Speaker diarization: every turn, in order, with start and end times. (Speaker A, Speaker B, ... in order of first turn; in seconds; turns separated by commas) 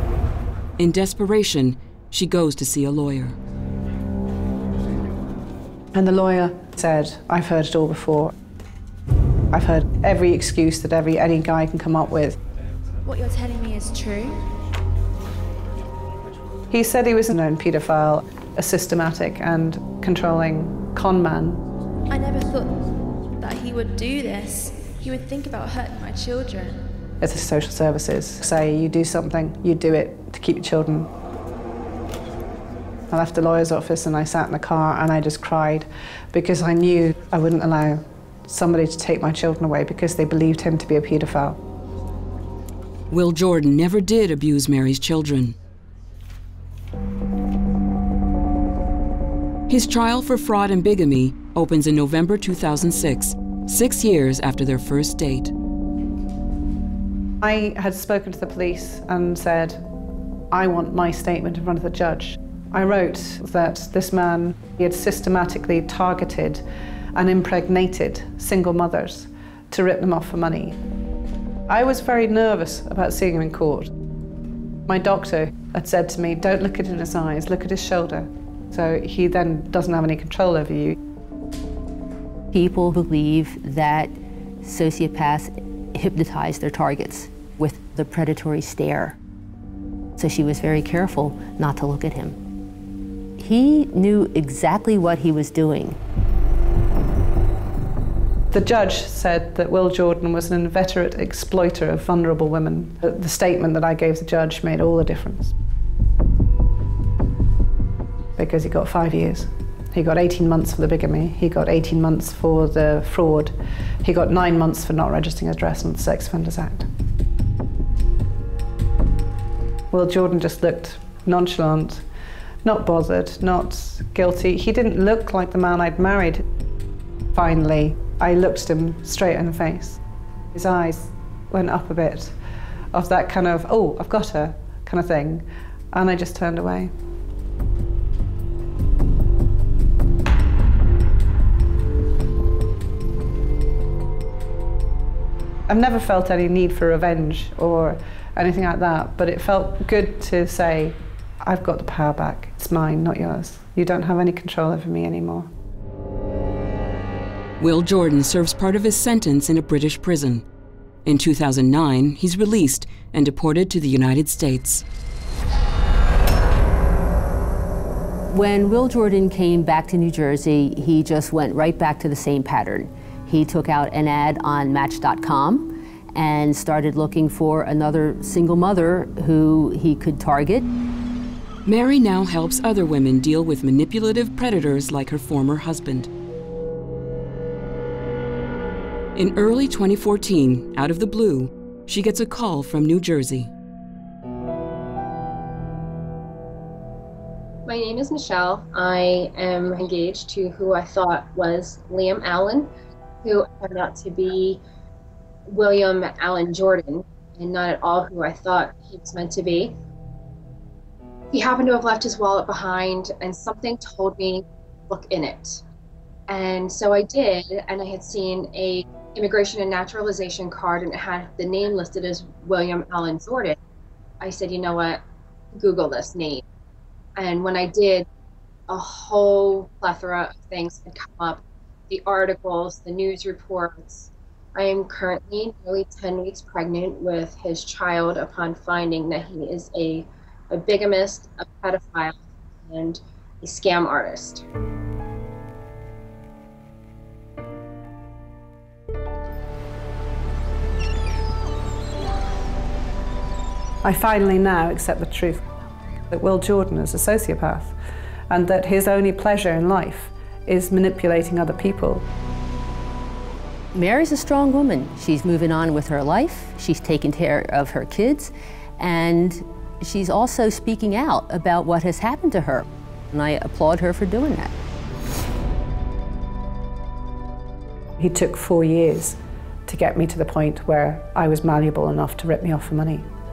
Speaker A: 0.8-3.4, Speaker B: 5.9-8.3, Speaker B: 9.5-12.4, Speaker C: 13.1-14.4, Speaker B: 16.7-21.7, Speaker C: 22.1-26.9, Speaker B: 27.2-31.1, Speaker B: 33.1-41.6, Speaker A: 43.1-45.5, Speaker A: 49.7-55.5, Speaker B: 57.4-59.9, Speaker B: 60.5-66.6, Speaker B: 67.2-70.8, Speaker B: 71.7-73.9, Speaker B: 74.9-81.0, Speaker D: 82.5-89.2, Speaker D: 90.2-92.4, Speaker D: 93.4-96.0, Speaker B: 98.5-105.5, Speaker B: 108.4-116.9, Speaker B: 119.9-122.0, Speaker B: 122.6-126.4, Speaker B: 127.3-130.0, Speaker B: 130.5-132.4, Speaker B: 132.9-136.9, Speaker B: 145.7-155.5, Speaker A: 157.6-160.4, Speaker A: 161.1-164.8, Speaker D: 168.3-180.7, Speaker A: 181.7-186.1, Speaker A: 189.2-193.5, Speaker E: 197.7-202.7, Speaker E: 203.2-204.6, Speaker E: 205.5-209.8, Speaker E: 211.3-215.6, Speaker E: 216.3-223.6, Speaker E: 224.2-225.0, Speaker E: 225.5-226.4, Speaker E: 227.2-228.1, Speaker E: 228.7-244.4, Speaker B: 253.8-255.4, Speaker B: 256.1-257.8, Speaker B: 258.3-262.1, Speaker D: 263.7-274.5, Speaker B: 278.0-283.1